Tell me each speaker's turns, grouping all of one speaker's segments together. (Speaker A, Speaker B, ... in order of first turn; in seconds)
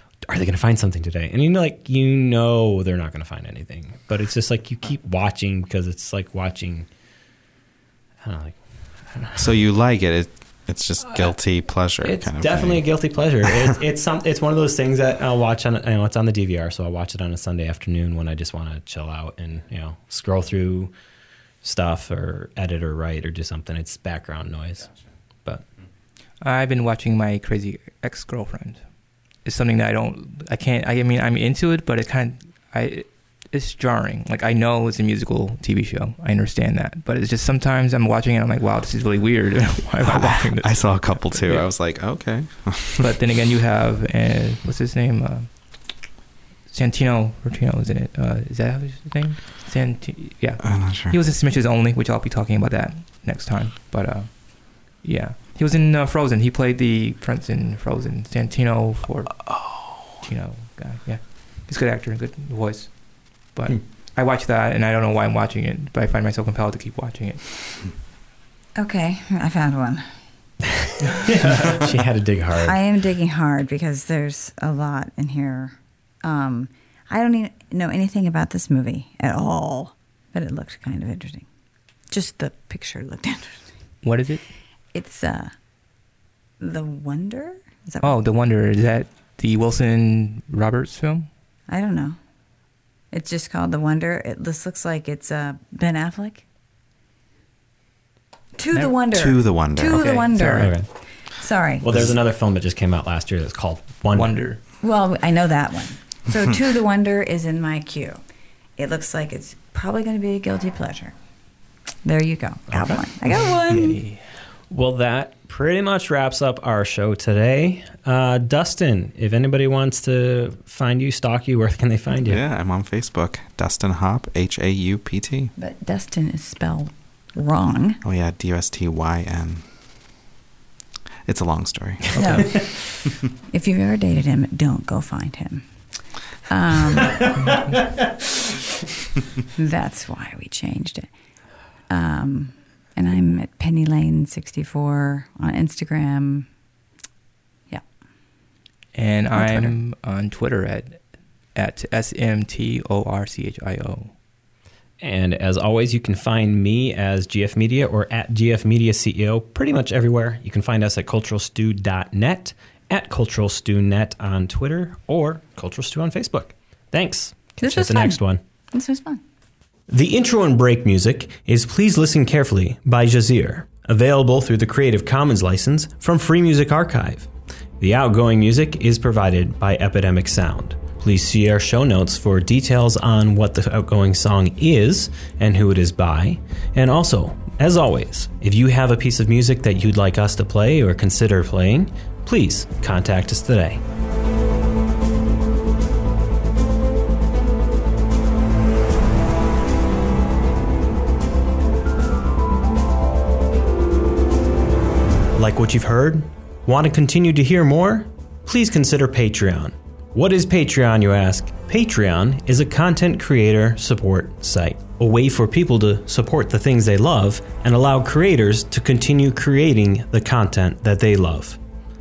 Speaker A: 0.3-6.9, 8.2-9.5, 12.0-20.9, 21.6-24.9, 70.8-72.8, 100.6-100.9, 101.8-104.3, 112.7-113.0, 114.7-122.4, 137.2-137.9, 155.0-168.4, 169.9-177.3, 177.8-193.8, 205.3-221.6
Speaker B: 9.4-12.9, 13.4-13.8, 40.0-43.1, 50.6-51.2, 98.8-100.3, 122.2-125.5, 128.0-129.6, 131.3-132.4
Speaker C: 26.4-28.8, 29.4-41.6, 43.0-45.5, 46.7-54.3, 55.0-59.4, 60.2-62.9, 63.5-67.5, 84.0-84.4, 88.0-91.3, 99.9-100.7, 104.1-104.6, 113.7-114.2, 132.1-132.4, 148.9-151.0, 151.6-154.1
Speaker D: 68.8-70.0, 72.6-81.5, 82.1-83.7, 84.9-85.5, 86.6-88.2, 91.7-92.2, 93.1-96.4, 98.5-100.8, 101.4-102.0, 104.8-108.2, 108.8-111.2, 112.0-114.0, 125.6-128.0, 132.2-132.6, 133.5-135.7, 136.4-137.3, 139.6-141.1, 141.9-146.5, 149.3-149.7, 167.6-168.2, 168.7-169.2